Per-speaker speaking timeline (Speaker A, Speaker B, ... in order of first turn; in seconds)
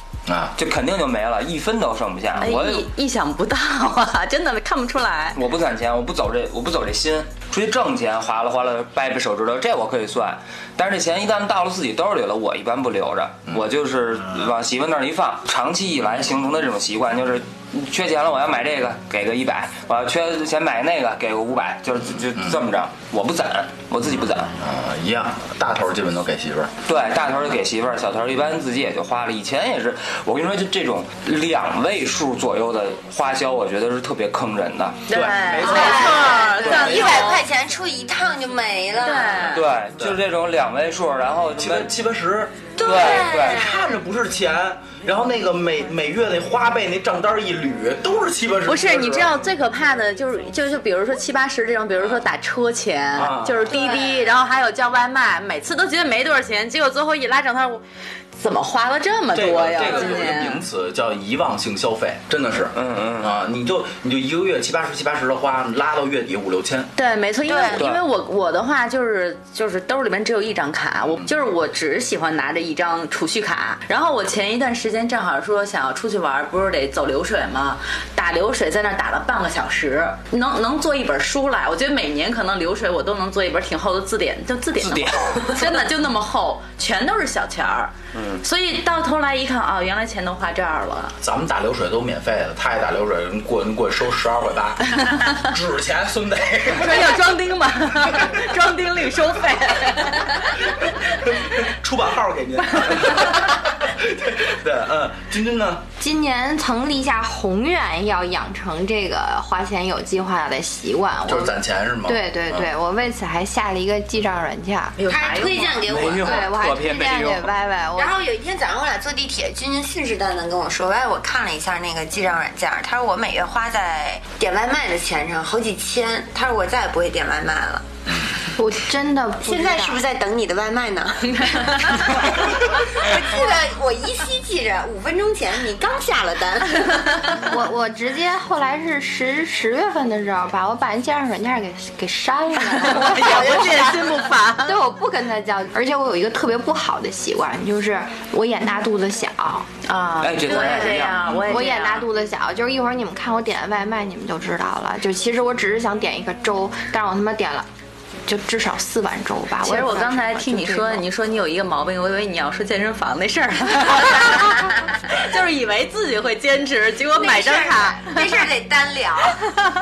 Speaker A: 0.2-0.5, 22.3-22.6, 24.5-26.7, 35.1-37.2, 41.6-49.4, 52.0-52.2, 53.1-53.7, 59.3-66.9, 91.2-97.2, 101.1-105.8, 111.2-112.7
Speaker B: 0.6-2.9, 5.3-24.5, 26.9-35.0, 36.7-37.0, 39.4-41.9, 42.8-43.7, 62.7-63.3, 67.7-68.0, 84.8-85.7, 88.1-88.4, 115.2-117.5, 150.2-151.7
Speaker C: 2.4-5.4, 35.1-37.4, 39.0-39.6, 48.6-57.8, 58.4-60.6, 67.0-91.1, 96.7-100.6, 115.0-116.0, 131.3-132.2, 142.6-144.8, 149.8-152.1, 159.6-168.3
Speaker D: 35.6-39.6, 42.8-43.8, 53.7-54.3, 67.5-67.8, 115.0-116.5, 118.0-127.8, 129.4-137.3, 142.9-144.2, 150.5-151.0, 167.1-169.4
Speaker E: 106.0-115.0, 116.2-118.1, 128.6-130.0, 137.3-143.9, 144.6-149.7, 151.5-157.7, 158.2-161.0